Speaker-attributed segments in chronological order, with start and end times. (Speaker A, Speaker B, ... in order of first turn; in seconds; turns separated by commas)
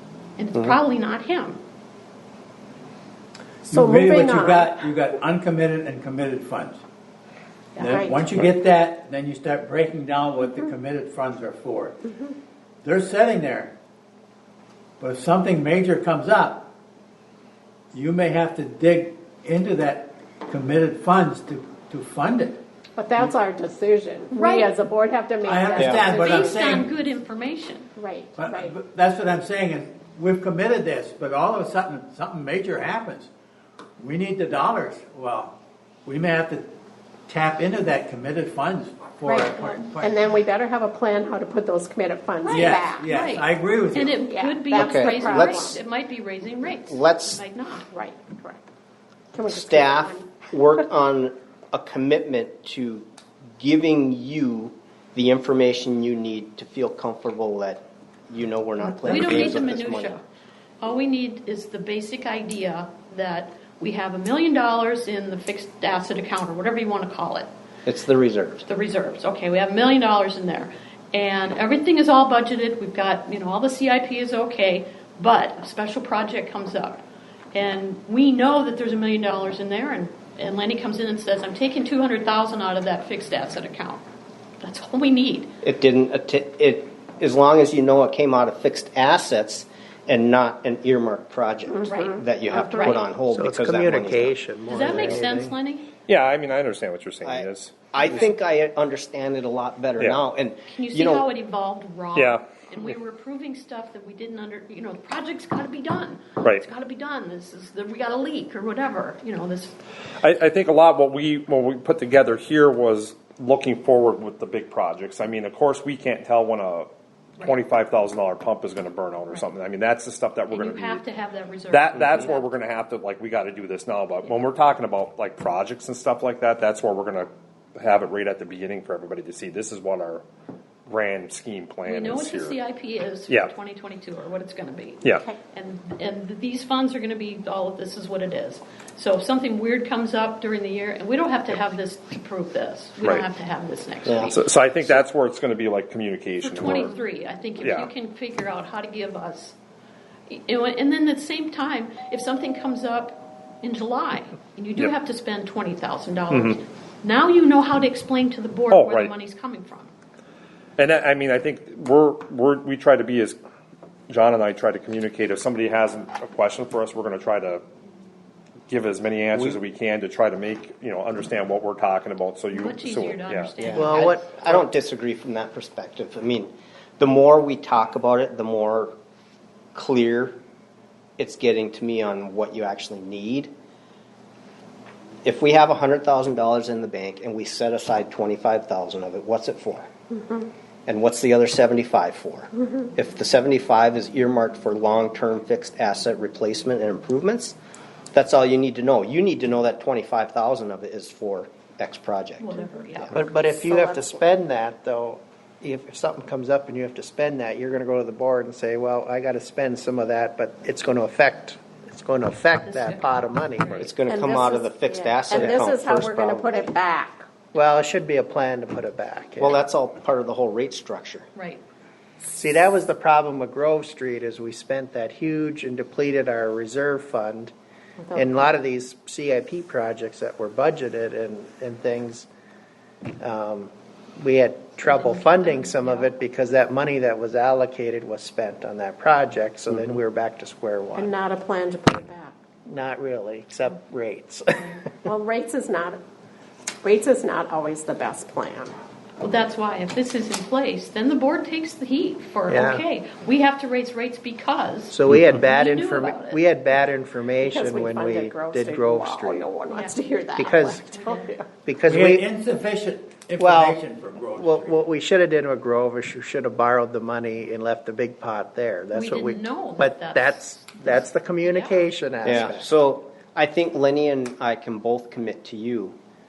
Speaker A: 0.4-1.6, Speaker B: 3.7-4.7, Speaker C: 3.7-6.8, Speaker C: 7.8-12.1, Speaker B: 7.9-8.5, Speaker C: 12.8-13.8, Speaker C: 15.0-16.7, Speaker C: 17.9-22.6, Speaker B: 23.0-26.6, Speaker A: 24.3-24.7, Speaker C: 25.4-26.9, Speaker D: 25.8-26.1, Speaker A: 26.1-27.9, Speaker B: 28.0-28.8, Speaker C: 28.4-33.3, Speaker C: 34.0-36.7, Speaker C: 37.3-40.3, Speaker B: 39.3-43.1, Speaker C: 42.5-44.2, Speaker A: 42.5-47.9, Speaker B: 44.2-45.8, Speaker D: 44.7-45.7, Speaker D: 46.9-47.4, Speaker B: 47.8-48.6, Speaker B: 49.3-50.4, Speaker D: 49.5-53.1, Speaker D: 53.6-60.2, Speaker A: 59.0-60.2, Speaker A: 60.8-67.5, Speaker D: 67.9-68.6, Speaker A: 68.6-77.0, Speaker A: 77.5-84.0, Speaker A: 84.6-85.5, Speaker D: 85.6-95.2, Speaker B: 91.7-92.2, Speaker A: 92.5-93.1, Speaker E: 93.3-95.5, Speaker A: 94.7-95.9, Speaker F: 96.1-97.9, Speaker D: 97.2-101.3, Speaker A: 100.7-109.8, Speaker F: 102.2-102.4, Speaker F: 110.2-121.0, Speaker A: 120.5-122.5, Speaker F: 121.7-130.2, Speaker F: 130.9-132.6, Speaker A: 131.9-144.4, Speaker F: 135.0-135.3, Speaker D: 144.1-144.3, Speaker F: 144.3-146.9, Speaker A: 146.4-149.6, Speaker F: 147.6-147.9, Speaker A: 150.3-159.9, Speaker F: 156.3-156.6, Speaker F: 158.7-159.1, Speaker F: 160.8-163.4, Speaker F: 164.1-167.6, Speaker F: 168.7-173.5, Speaker A: 172.5-174.3, Speaker D: 173.6-178.9, Speaker E: 173.8-174.7, Speaker D: 179.8-180.4, Speaker D: 181.2-183.5, Speaker D: 185.2-189.9, Speaker D: 190.9-197.6, Speaker D: 198.1-203.2, Speaker A: 202.4-203.3, Speaker E: 203.1-213.7, Speaker A: 212.6-213.9, Speaker D: 213.8-216.7, Speaker B: 214.1-217.3, Speaker E: 217.5-219.6, Speaker D: 219.4-221.3, Speaker A: 221.3-221.6, Speaker E: 222.2-227.5, Speaker E: 228.1-232.3, Speaker E: 233.2-241.1, Speaker A: 234.8-236.1, Speaker B: 240.9-242.4, Speaker E: 242.7-245.1, Speaker B: 245.1-246.0, Speaker B: 246.8-248.7, Speaker A: 249.2-256.4, Speaker E: 252.5-252.8, Speaker E: 254.9-259.4, Speaker B: 257.4-261.5, Speaker A: 259.7-260.0, Speaker E: 260.4-260.9, Speaker A: 260.9-261.3, Speaker E: 261.6-262.3, Speaker C: 261.9-264.8, Speaker E: 263.4-263.8, Speaker E: 264.4-272.8, Speaker A: 268.9-271.9, Speaker D: 272.2-276.0